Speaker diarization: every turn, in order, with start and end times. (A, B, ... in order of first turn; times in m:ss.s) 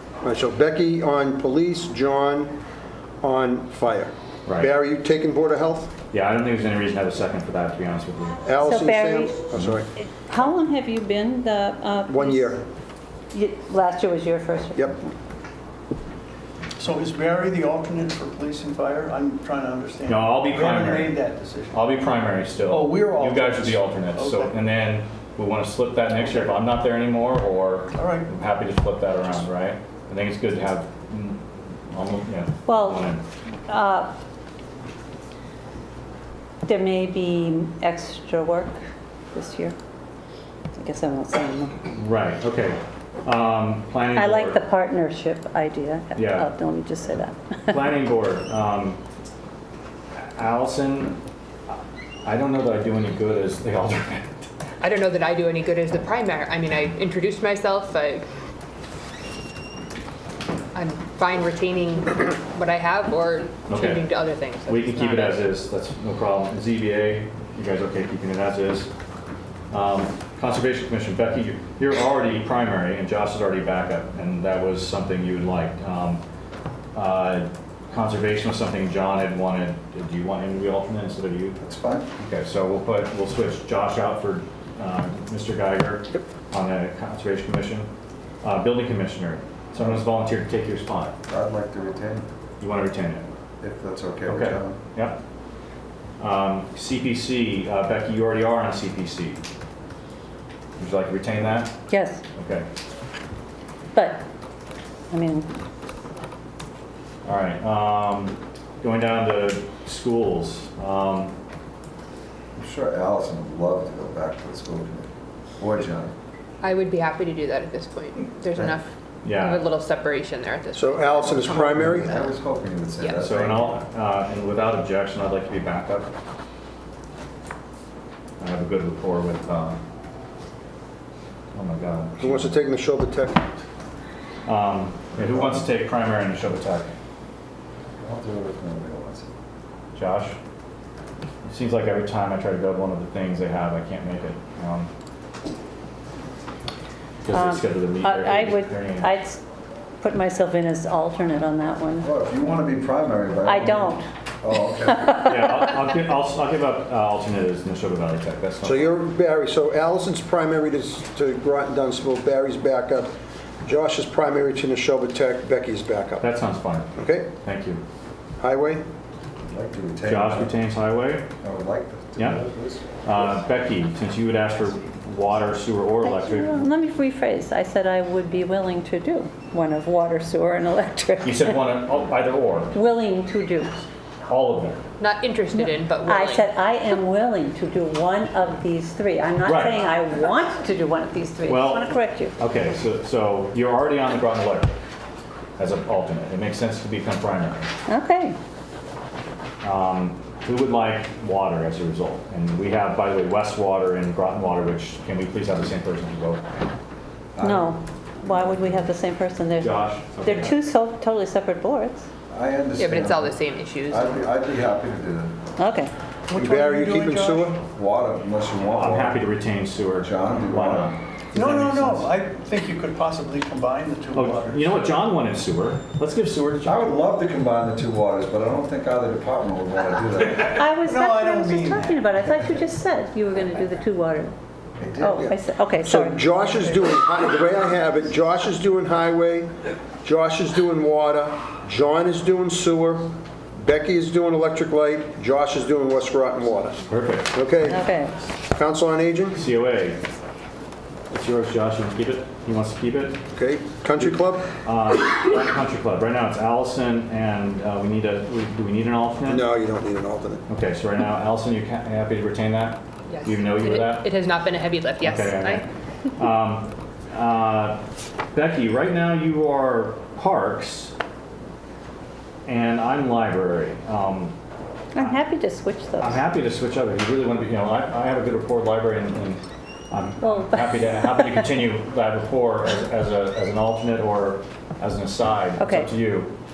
0:00.2-0:02.6 A
0:03.2-0:05.9 A
0:04.5-0:04.7 B
0:06.1-0:08.4 B
0:08.4-0:09.9 A
0:08.6-0:09.4 C
0:09.6-0:09.8 B
0:10.0-0:12.6 C
0:12.1-0:12.6 A
0:13.3-0:15.1 C
0:16.8-0:22.0 D
0:20.1-0:33.2 B
0:22.7-0:24.6 D
0:26.1-0:26.5 D
0:27.9-0:28.3 D
0:32.7-0:33.1 C
0:33.7-0:34.1 C
0:36.6-0:38.8 C
0:39.3-0:39.8 C
0:40.7-0:41.8 C
0:41.9-0:44.6 B
0:44.1-0:47.9 C
0:46.2-0:46.5 B
0:47.7-0:49.0 B
0:50.2-0:54.5 B
0:54.8-0:58.3 E
1:00.7-1:05.5 E
1:03.7-1:08.9 B
1:09.7-1:16.2 B
1:17.0-1:21.6 B
1:21.6-1:22.1 F
1:22.2-1:27.9 B
1:28.4-1:31.2 B
1:31.3-1:32.3 F
1:32.6-1:33.3 B
1:33.6-1:34.8 F
1:34.3-1:35.2 B
1:36.2-1:39.4 B
1:40.8-1:41.8 B
1:41.9-1:42.2 C
1:42.4-1:42.7 B
1:43.9-1:44.2 C
1:45.1-1:45.5 C
1:47.2-1:51.3 B
1:52.6-1:55.1 F
1:55.6-1:56.1 F
1:56.6-2:02.3 E
1:58.5-1:58.8 F
1:59.2-1:59.7 B
2:00.7-2:02.2 A
2:01.2-2:03.8 F
2:03.0-2:03.3 E
2:03.2-2:06.1 B
2:08.4-2:09.8 B
2:11.5-2:12.5 B
2:12.2-2:13.5 A
2:14.5-2:16.9 B
2:15.2-2:15.6 F
2:18.0-2:19.3 F
2:20.0-2:20.4 B
2:21.4-2:24.9 B
2:27.2-2:29.2 B
2:27.3-2:29.4 C
2:30.0-2:32.1 C
2:32.0-2:35.4 F
2:33.4-2:34.1 C
2:34.8-2:35.3 C
2:35.2-2:39.0 B
2:38.6-2:43.1 A
2:43.6-2:46.3 A
2:46.2-2:47.8 B
2:47.0-2:47.3 A
2:48.4-2:48.8 A
2:49.4-2:50.5 F
2:50.0-2:51.3 B
2:51.4-2:53.3 F
2:52.2-2:52.4 B
2:53.0-2:56.7 B
2:56.0-3:01.7 C
3:01.2-3:02.8 B
3:02.7-3:03.8 C
3:04.3-3:04.8 B
3:05.0-3:06.5 E
3:05.5-3:12.4 C
3:09.4-3:09.9 B
3:11.5-3:14.7 B
3:15.6-3:17.7 B
3:17.9-3:18.4 C
3:19.6-3:26.4 B
3:27.4-3:28.9 F
3:27.4-3:32.1 C
3:29.6-3:30.6 B
3:32.3-3:35.4 F
3:32.8-3:34.2 E
3:35.6-3:35.9 C
3:36.3-3:37.6 D
3:36.4-3:37.6 A
3:37.7-3:39.2 F
3:38.8-3:41.0 B
3:40.0-3:41.6 F
3:41.3-3:45.0 D
3:44.1-3:46.9 B
3:46.6-3:50.6 F
3:50.5-3:54.3 C
3:50.8-3:52.6 D
3:54.8-3:55.3 F
3:55.0-3:56.2 C
3:55.2-4:07.8 A
4:06.9-4:07.4 B
4:07.6-4:08.2 C
4:08.5-4:09.4 A
4:09.4-4:10.0 B
4:11.1-4:13.2 B
4:13.3-4:14.5 A
4:14.0-4:19.4 B
4:19.3-4:20.4 A
4:20.5-4:24.1 B
4:23.1-4:25.6 E
4:25.0-4:27.8 B
4:28.3-4:30.9 B
4:32.5-4:34.4 B
4:34.9-4:36.2 C
4:36.0-4:46.3 B
4:40.2-4:41.5 C
4:45.6-4:45.9 C